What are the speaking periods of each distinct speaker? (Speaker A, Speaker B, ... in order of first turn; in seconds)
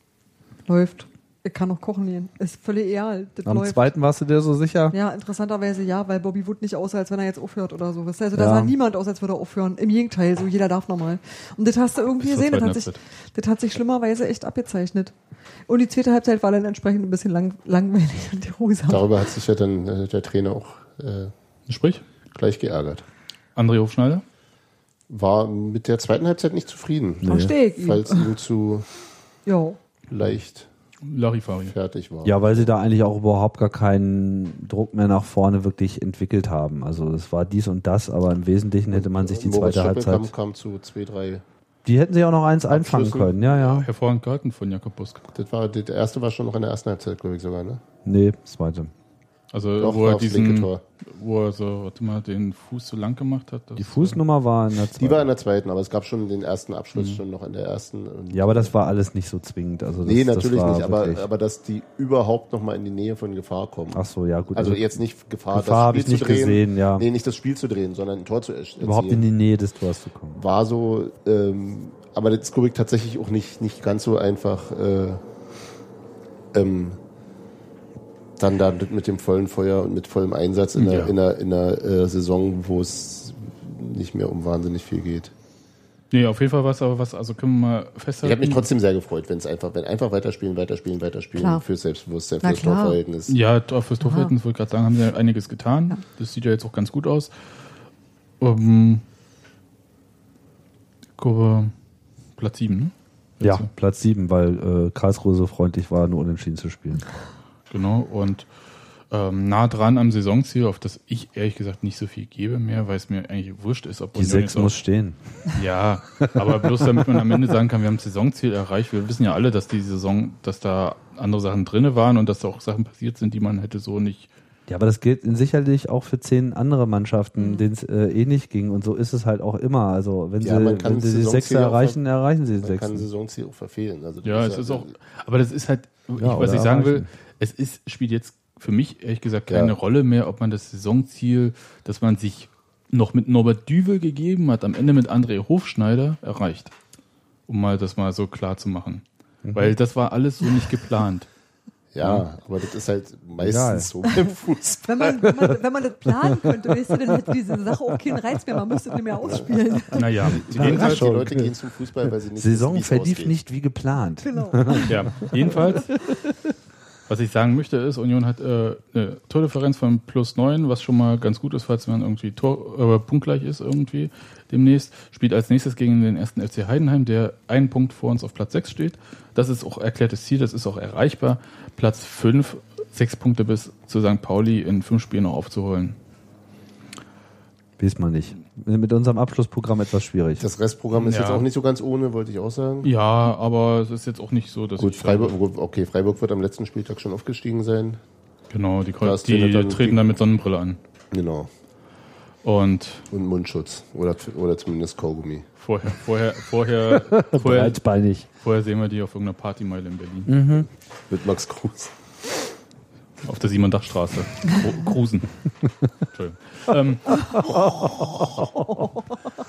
Speaker A: 0.7-3.9, 4.9-15.1, 15.7-19.1, 27.3-28.3, 29.5-29.8, 91.4-91.7, 92.4-93.0, 94.0-94.3, 127.4-127.7, 154.9-160.1, 164.2-165.9
Speaker B: 3.5-5.0, 8.3-8.7, 27.2-27.5, 32.2-40.3, 41.9-43.9, 48.0-48.9, 53.8-55.3, 57.0-57.2, 58.3-61.3, 63.9-67.1, 68.8-70.4, 103.4-107.1, 114.2-115.2, 116.2-117.2, 124.7-133.1, 136.2-137.1, 149.4-149.8, 153.4-153.9, 156.3-158.7, 160.0-161.5, 162.4-165.8, 187.8-190.5, 207.0-208.3, 210.3-210.7, 217.4-218.8
Speaker C: 12.2-13.0, 21.7-22.0, 23.6-24.2, 31.1-31.8, 43.4-45.2, 49.5-54.2, 80.8-81.1, 86.1-88.7, 93.3-97.3, 98.4-99.0, 101.2-101.7, 102.4-103.7, 107.7-108.5, 109.1-114.7, 115.5-124.3, 134.2-146.7, 147.5-151.3, 152.0-152.2, 159.9-161.1, 164.9-165.9, 167.1-186.0, 190.9-191.5, 192.8-195.3, 198.5-200.8, 202.4-203.1, 205.6-207.8, 208.4-210.3, 213.2-215.6, 216.1-217.5
Speaker D: 18.9-21.3, 22.3-23.0, 25.1-28.9, 30.1-30.7, 31.7-32.7, 38.9-41.4, 42.7-43.3, 45.3-47.8, 49.8-50.8, 55.0-58.7, 60.0-64.0, 64.5-69.2, 70.3-75.2, 76.5-77.0, 78.4-85.3, 88.2-93.4, 130.4-132.0, 132.6-134.9, 139.5-139.8, 151.9-155.4, 159.2-159.5, 160.2-163.3, 190.4-192.9, 194.8-198.0, 199.0-200.2, 201.1-201.5, 203.1-205.5, 211.1-211.9